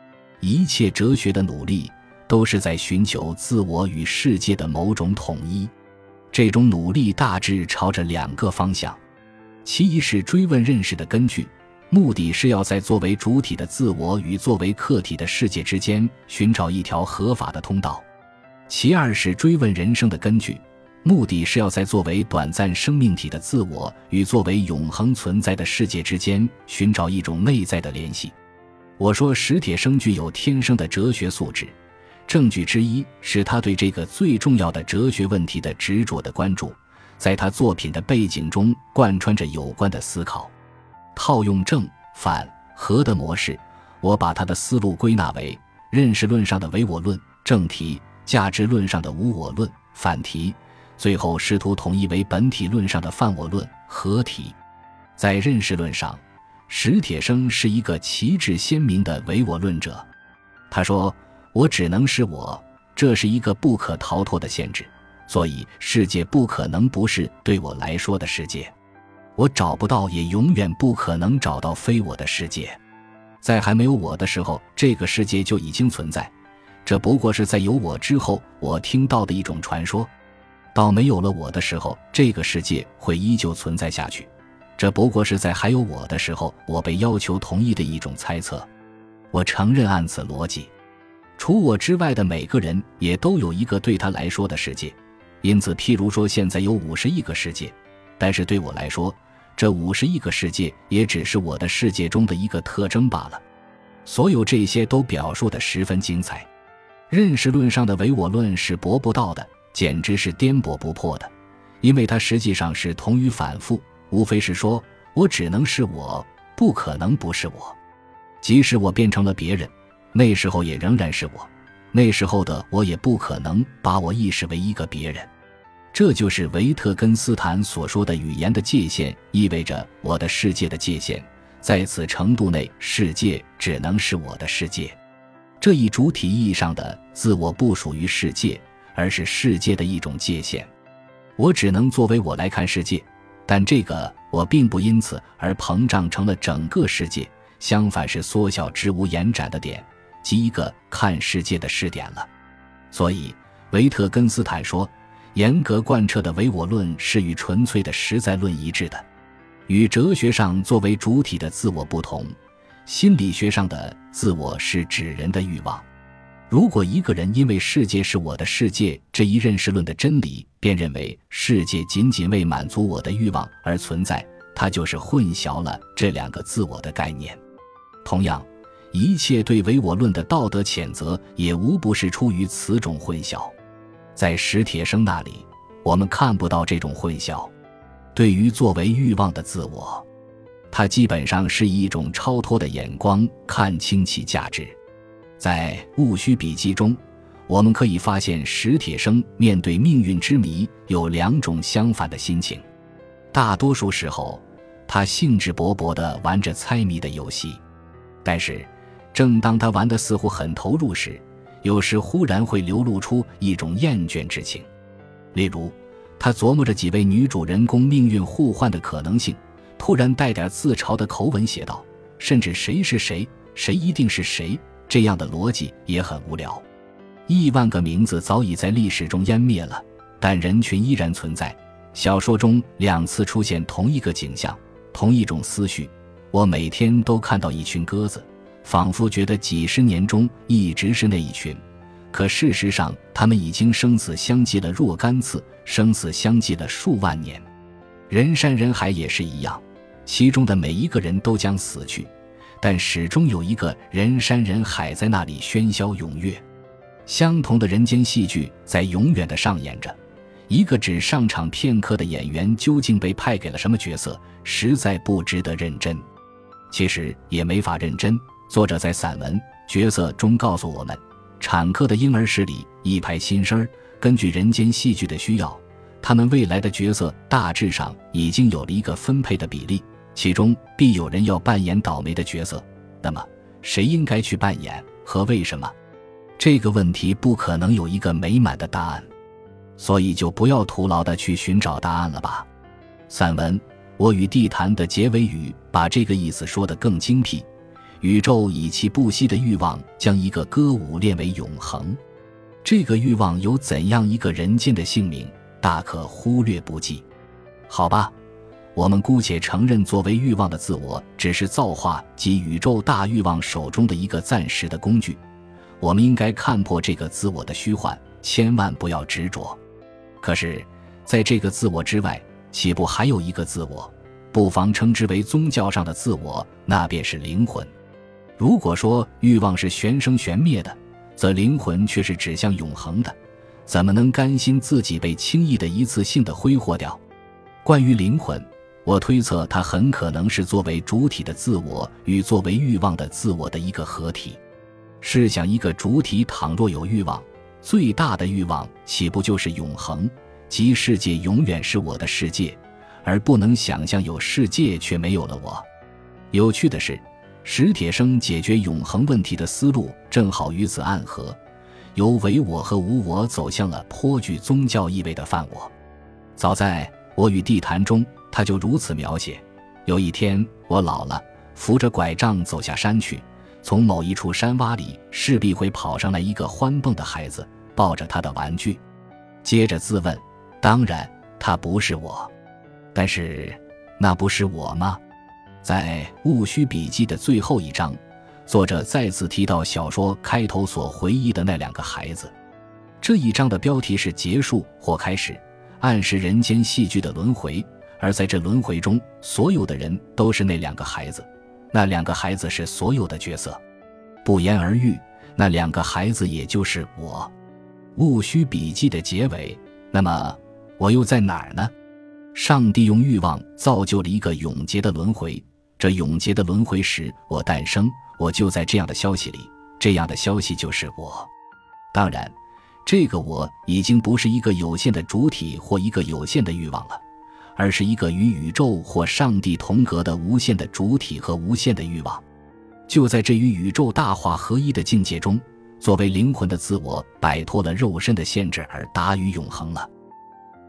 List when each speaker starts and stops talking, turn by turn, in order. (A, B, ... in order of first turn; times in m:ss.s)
0:00.4-0:05.7 A
0:06.3-0:09.0 A
0:09.6-0:18.1 A
0:18.7-0:28.4 A
0:29.0-0:31.8 A
0:32.3-0:40.5 A
0:41.1-0:54.6 A
0:55.2-1:00.1 A
1:00.7-1:08.7 A
1:09.4-1:12.8 A
1:13.4-1:16.3 A
1:16.8-1:20.1 A
1:20.7-1:28.7 A
1:29.3-1:30.7 A
1:31.4-1:43.4 A
1:44.0-1:46.5 A
1:47.1-1:57.8 A
1:58.4-2:05.3 A
2:05.9-2:15.0 A
2:15.6-2:20.7 A
2:21.4-2:32.3 A
2:32.9-2:39.1 A
2:39.7-2:42.4 A
2:42.9-2:45.9 A
2:46.5-2:57.4 A
2:58.0-3:03.5 A
3:04.2-3:07.5 A
3:08.2-3:10.1 A
3:10.7-3:14.8 A
3:15.4-3:22.6 A
3:23.3-3:27.6 A
3:28.2-3:34.7 A
3:35.3-3:46.6 A
3:47.3-4:07.5 A
4:08.1-4:16.4 A
4:17.1-4:20.0 A
4:20.5-4:26.1 A
4:26.7-4:45.7 A
4:46.4-4:49.1 A
4:49.8-4:52.5 A
4:53.1-4:57.5 A
4:58.0-5:02.0 A
5:02.6-5:07.1 A
5:07.7-5:08.1 A
5:08.8-5:15.2 A
5:15.8-5:19.6 A
5:20.2-5:27.7 A
5:28.4-5:33.2 A
5:33.7-5:37.0 A
5:37.6-5:44.4 A
5:45.0-5:55.7 A
5:56.3-6:01.4 A
6:02.0-6:05.7 A
6:06.4-6:18.8 A
6:19.4-6:22.3 A
6:22.9-6:25.0 A
6:25.6-6:32.3 A
6:33.0-6:43.6 A
6:44.2-6:47.3 A
6:48.0-6:51.7 A
6:52.3-7:01.3 A
7:01.9-7:07.0 A
7:07.6-7:12.2 A
7:12.9-7:19.9 A